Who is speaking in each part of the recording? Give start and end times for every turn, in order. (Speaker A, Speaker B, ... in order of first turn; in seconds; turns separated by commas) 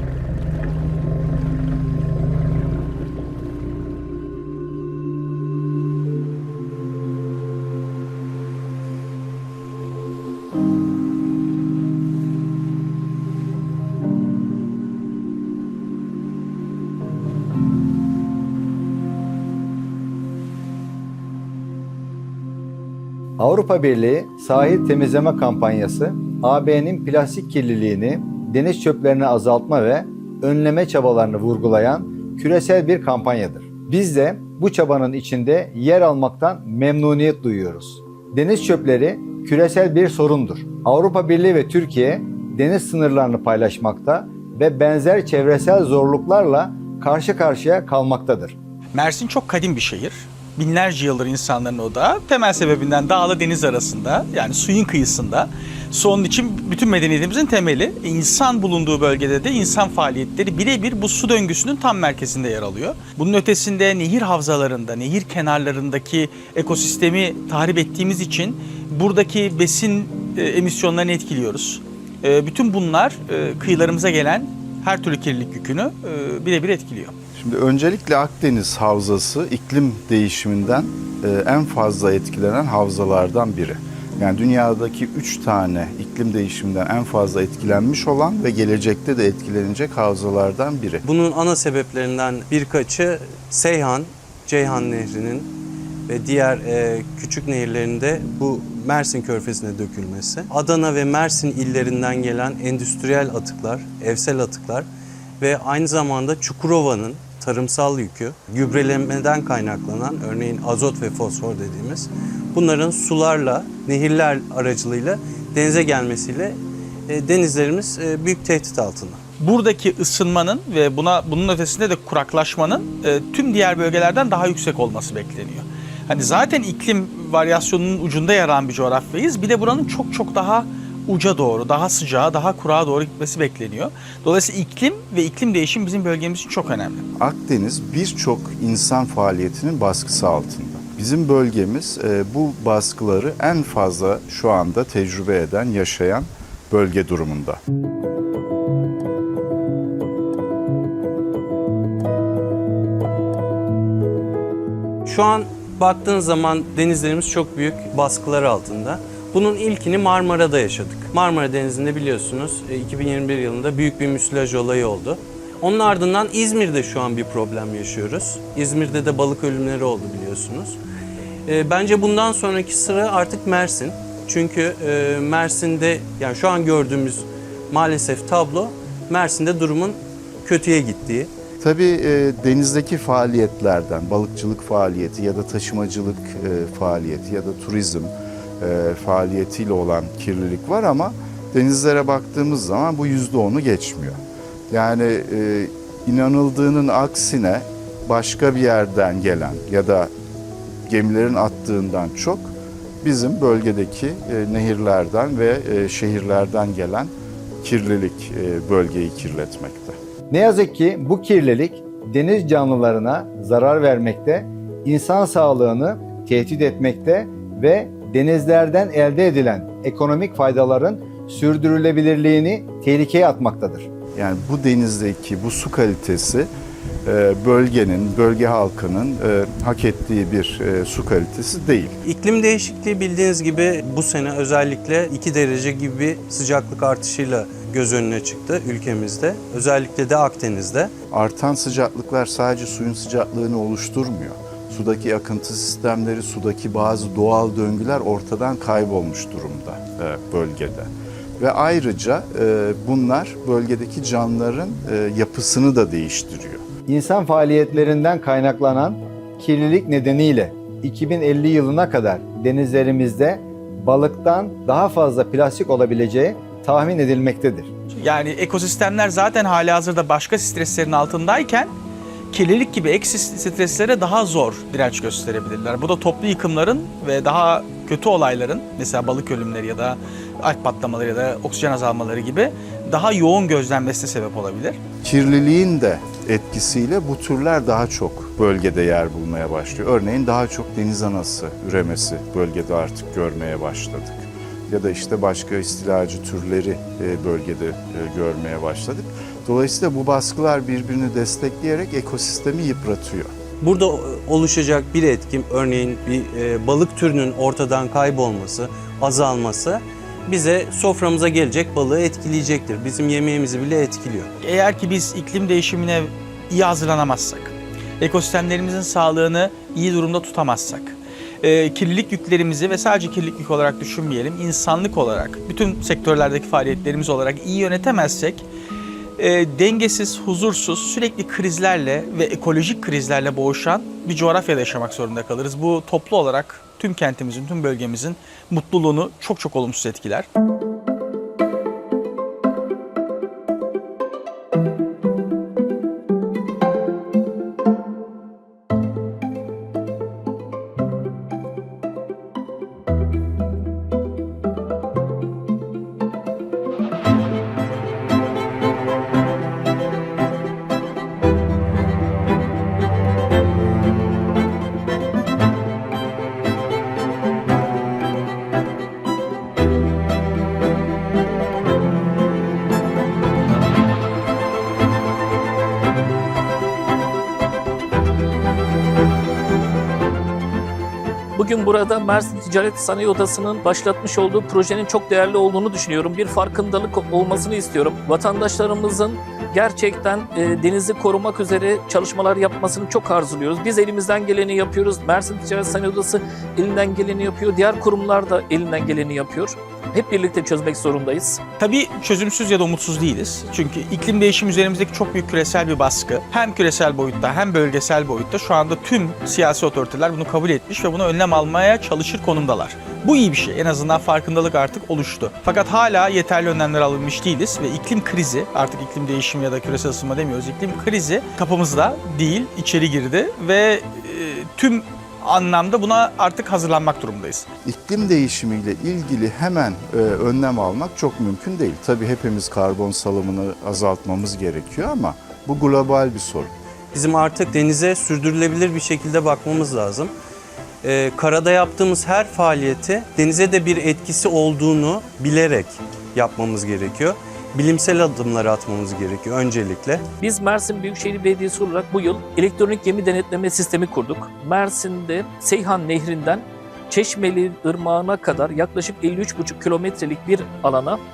Speaker A: 23.4-48.5, Speaker B: 48.9-77.1, Speaker C: 77.4-91.0, Speaker D: 91.0-95.5, Speaker D: 96.1-104.8, Speaker D: 105.4-119.2, Speaker B: 119.4-137.0, Speaker C: 137.2-147.6, Speaker D: 155.1-170.8, Speaker D: 171.5-181.3, Speaker C: 181.6-200.1, Speaker C: 200.9-210.0, Speaker A: 210.3-223.9, Speaker C: 224.1-226.5, Speaker C: 227.1-232.0, Speaker D: 232.0-240.9, Speaker C: 241.1-256.7, Speaker A: 256.9-267.7, Speaker B: 268.0-271.7, Speaker B: 272.3-284.8, Speaker C: 285.0-303.3, Speaker D: 303.6-314.3, Speaker B: 314.4-328.5, Speaker B: 329.2-340.3, Speaker E: 381.4-401.4, Speaker B: 401.6-427.5, Speaker C: 427.6-436.5, Speaker D: 436.9-440.1, Speaker D: 440.8-450.1, Speaker E: 450.2-461.0